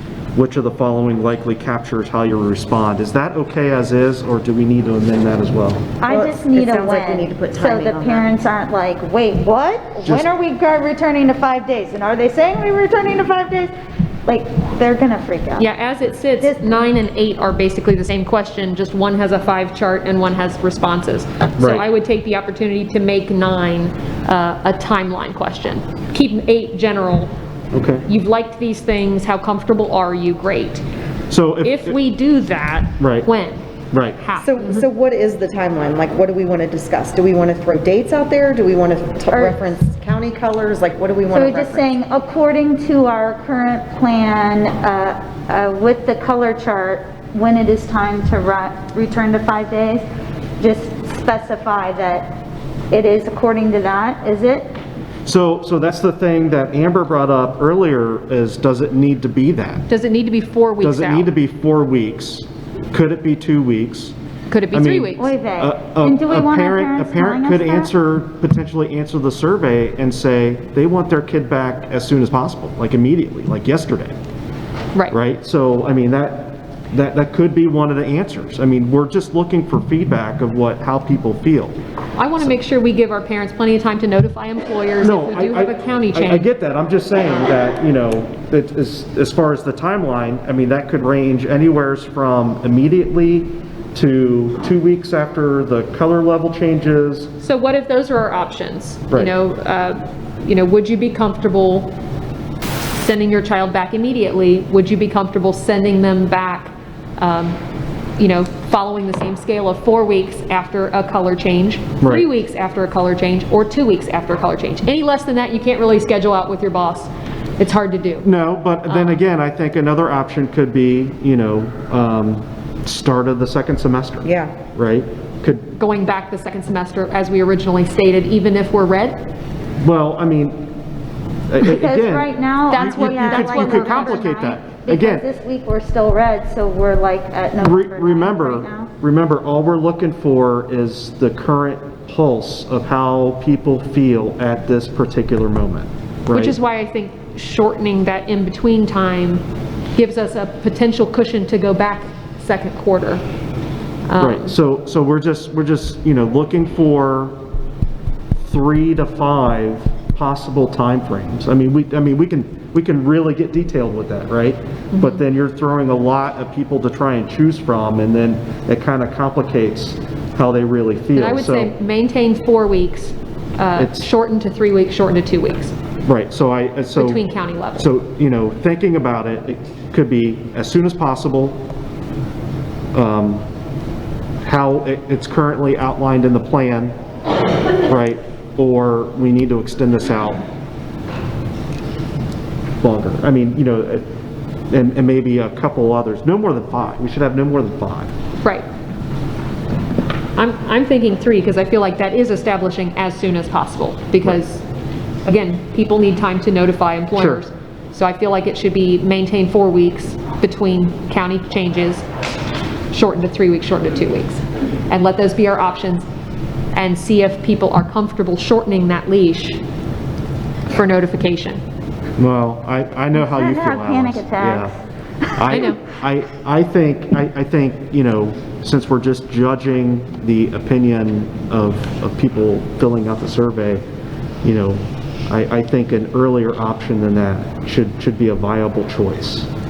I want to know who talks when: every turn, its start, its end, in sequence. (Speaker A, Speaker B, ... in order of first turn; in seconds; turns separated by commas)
Speaker A: 0.3-5.8, Speaker B: 6.0-13.7, Speaker C: 6.1-8.3, Speaker A: 10.0-10.3, Speaker B: 14.3-15.7, Speaker D: 15.6-27.3, Speaker B: 16.4-16.8, Speaker A: 21.6-21.9, Speaker A: 27.7-28.1, Speaker D: 28.1-30.8, Speaker A: 31.3-32.0, Speaker D: 31.6-33.6, Speaker A: 33.0-33.3, Speaker A: 33.9-34.3, Speaker D: 34.2-34.9, Speaker C: 34.4-41.8, Speaker B: 39.3-39.7, Speaker B: 41.3-50.0, Speaker B: 50.6-52.4, Speaker B: 52.9-54.8, Speaker A: 55.2-59.9, Speaker D: 59.9-61.3, Speaker A: 60.8-64.2, Speaker D: 64.5-65.3, Speaker A: 64.7-74.2, Speaker B: 65.2-67.9, Speaker A: 75.1-81.8, Speaker D: 82.2-86.5, Speaker A: 85.0-97.3, Speaker D: 97.4-101.9, Speaker D: 102.9-107.6, Speaker D: 108.2-118.3, Speaker A: 112.0-112.3, Speaker A: 118.2-125.7, Speaker D: 118.9-119.2, Speaker C: 124.2-124.5, Speaker D: 125.8-129.2, Speaker A: 129.8-130.7, Speaker A: 131.5-135.2, Speaker B: 131.6-138.9, Speaker D: 132.7-134.5, Speaker A: 137.6-146.6, Speaker D: 146.3-149.4, Speaker D: 150.0-153.2, Speaker D: 154.1-154.6, Speaker A: 154.2-157.4, Speaker A: 158.4-171.7, Speaker D: 164.9-165.2, Speaker D: 171.1-175.7, Speaker A: 173.8-174.1, Speaker A: 176.1-177.2, Speaker D: 177.0-177.9, Speaker A: 177.8-181.6, Speaker A: 182.9-183.4, Speaker A: 184.4-187.0, Speaker A: 187.9-190.4, Speaker A: 192.8-194.1, Speaker A: 194.7-198.1, Speaker D: 200.4-204.6, Speaker D: 205.3-212.1, Speaker A: 207.2-207.4, Speaker D: 212.9-216.1, Speaker D: 216.7-219.6, Speaker D: 220.7-221.6, Speaker A: 222.2-224.7, Speaker B: 223.1-224.7, Speaker B: 225.3-225.6, Speaker A: 225.4-233.8, Speaker D: 225.5-225.8, Speaker A: 234.4-239.5